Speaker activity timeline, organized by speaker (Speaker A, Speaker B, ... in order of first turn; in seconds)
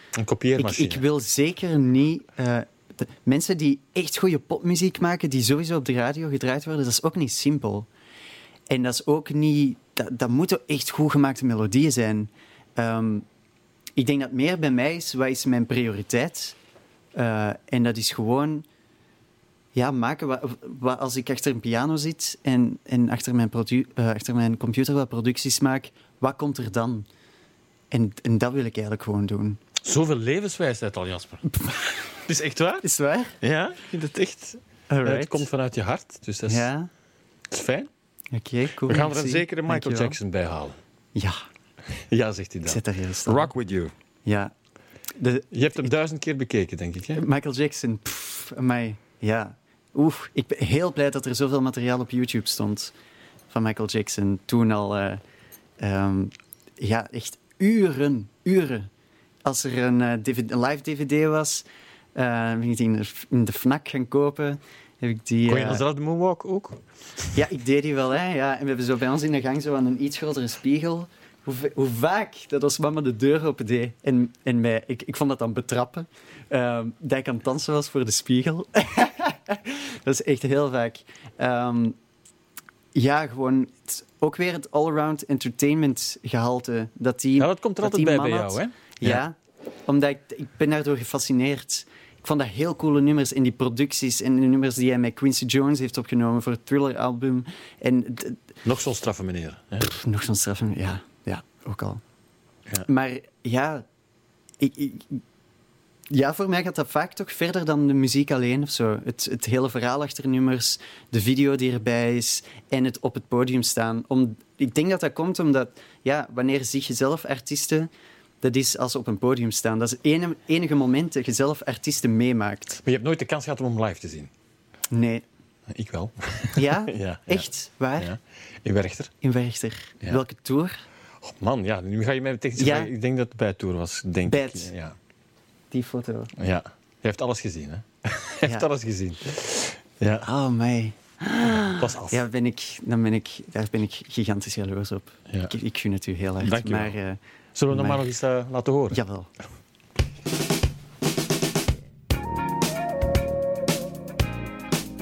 Speaker A: 0.1-1.0, 29.8-32.8, 33.4-36.7, 37.5-37.9, 38.9-40.8, 42.1-43.9, 45.5-47.2, 65.5-67.3, 87.4-89.2, 98.6-99.9, 122.8-124.3, 125.7-127.4, 128.0-129.1, 131.2-134.9, 136.4-140.2, 141.8-142.2, 146.4-146.9, 147.5-149.0
Speaker B: 0.6-7.9, 8.7-13.2, 14.0-16.6, 17.1-18.6, 19.7-27.1, 27.9-29.6, 32.8-33.4, 34.9-35.5, 36.5-36.9, 38.3-40.2, 42.6-43.5, 44.2-44.5, 45.2-45.9, 47.1-52.9, 53.5-55.2, 55.8-58.9, 59.4-61.6, 62.1-65.8, 67.3-82.0, 82.9-98.4, 99.8-102.0, 102.8-103.8, 104.6-105.2, 106.1-117.9, 118.4-122.8, 124.9-125.2, 126.6-128.1, 129.2-130.7, 132.6-132.9, 134.3-134.7, 135.7-136.3, 140.2-147.2, 147.7-148.0, 148.9-149.3